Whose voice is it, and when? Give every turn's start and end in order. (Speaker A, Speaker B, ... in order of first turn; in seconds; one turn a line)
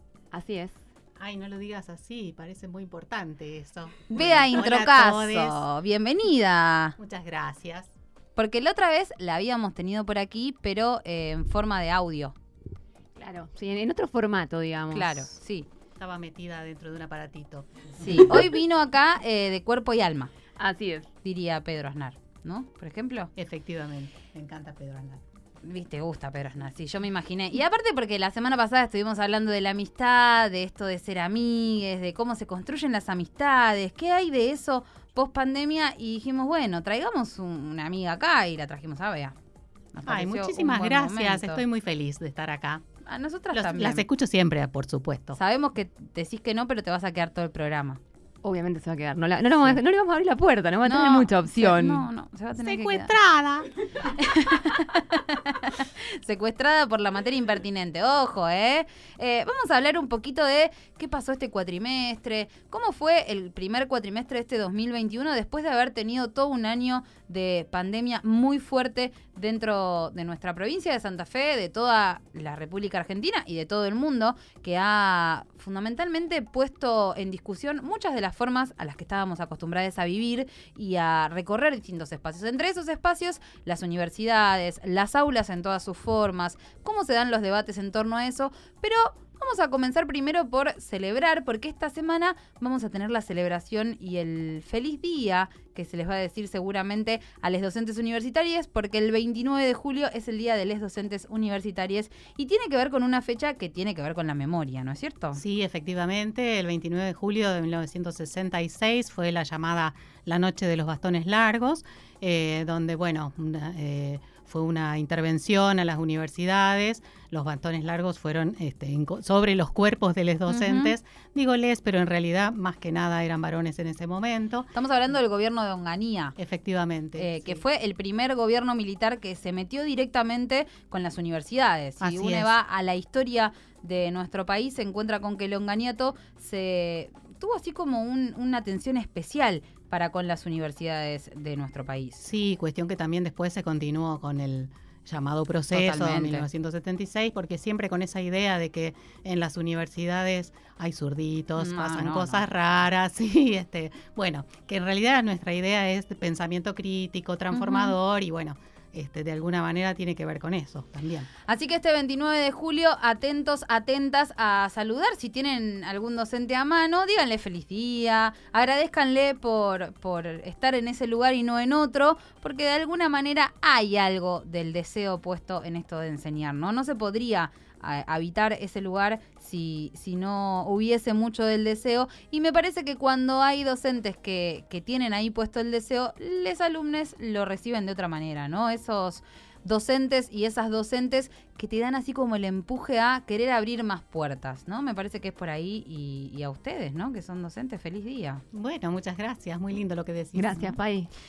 Speaker A: 0.3-0.8
Speaker B: 1.2-5.6
Speaker C: 4.1-7.0
Speaker B: 7.0-7.9
Speaker C: 8.4-12.3
Speaker A: 13.2-15.4
Speaker C: 14.9-15.7
Speaker B: 16.0-18.3
Speaker C: 18.0-20.3
Speaker A: 20.6-21.1
Speaker C: 21.2-23.3
Speaker B: 23.4-25.2
Speaker C: 25.6-39.4
Speaker C: 39.9-41.6
Speaker B: 40.1-42.9
Speaker C: 43.0-44.1
Speaker B: 43.5-45.4
Speaker C: 45.4-48.0
Speaker A: 48.4-52.0
Speaker C: 50.9-53.1
Speaker B: 52.6-54.6
Speaker C: 54.2-105.4
Speaker B: 105.3-124.7
Speaker C: 120.5-121.0
Speaker C: 124.7-126.4
Speaker B: 126.4-127.6
Speaker C: 127.2-142.3
Speaker B: 132.0-132.6
Speaker B: 142.2-161.3
Speaker C: 145.7-146.5
Speaker C: 151.6-152.4
Speaker C: 157.5-157.9
Speaker C: 161.5-198.4
Speaker B: 198.5-200.8
Speaker A: 200.4-201.1